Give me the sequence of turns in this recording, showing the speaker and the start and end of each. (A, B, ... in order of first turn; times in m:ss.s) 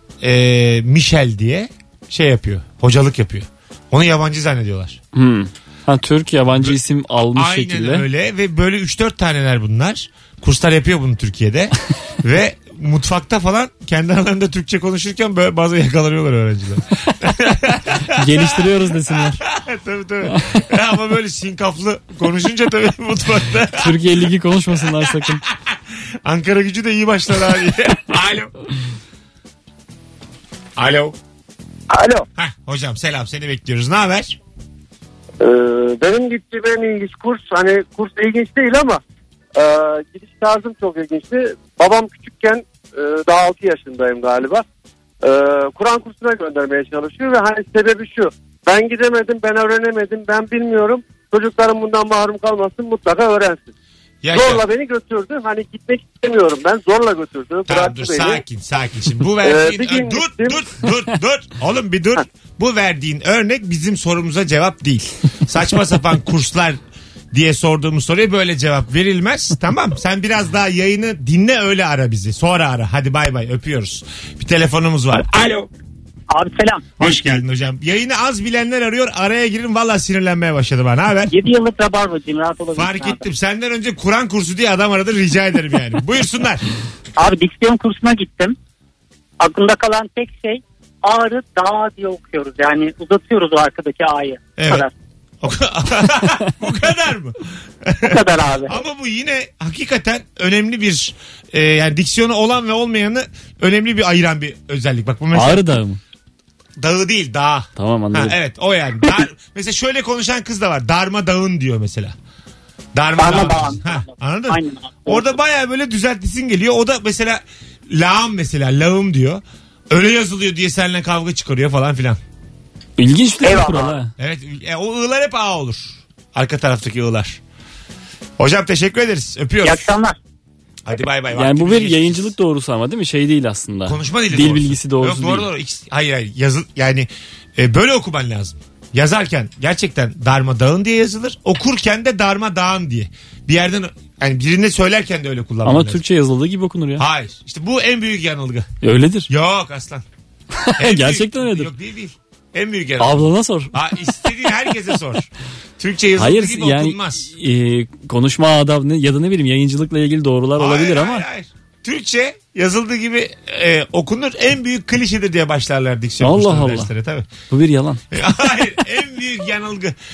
0:00.2-0:05.0 A
0:05.1-0:08.0 B
0:07.3-0:24.0 A
0:18.1-0:19.4 B
0:20.3-0:20.6 B
0:23.8-0:25.4 B
0:25.0-0:25.5 A
0:26.2-0:28.5 A
0:30.8-0:31.2 A
0:31.9-0:32.2 C
0:32.4-0:34.4 A
0:35.4-0:39.0 C
0:39.5-0:44.6 C
0:45.2-0:53.7 C
0:54.2-0:54.6 A
0:54.3-0:58.4 C
0:57.7-1:06.8 A
0:59.4-1:00.6 C
1:07.3-1:15.7 A
1:16.3-1:16.8 D
1:17.0-1:21.3 A
1:21.3-1:23.2 D
1:22.7-1:26.6 A
1:27.2-1:28.5 D
1:29.4-1:34.9 D
1:34.6-1:34.8 A
1:35.4-1:45.7 A
1:38.0-1:38.8 D
1:45.3-1:46.0 B
1:46.8-1:52.1 A
1:47.8-1:48.3 B
1:52.9-2:02.2 A
1:53.2-1:55.4 D
2:03.0-2:04.1 B
2:03.4-2:03.9 D
2:04.2-2:07.4 A
2:08.4-2:09.9 A
2:09.6-2:10.2 D
2:10.8-2:12.3 A
2:11.3-2:15.5 B
2:13.8-2:26.0 A
2:25.6-2:27.0 B
2:27.0-2:28.7 A
2:28.8-2:29.3 B
2:29.3-2:30.0 A
2:30.6-2:31.7 B
2:30.8-2:35.3 A
2:33.0-2:33.7 B
2:35.8-2:37.3 A
2:36.2-2:41.2 B
2:40.6-2:47.2 A
2:46.2-2:46.9 B
2:47.5-2:48.0 B
2:48.1-2:50.0 A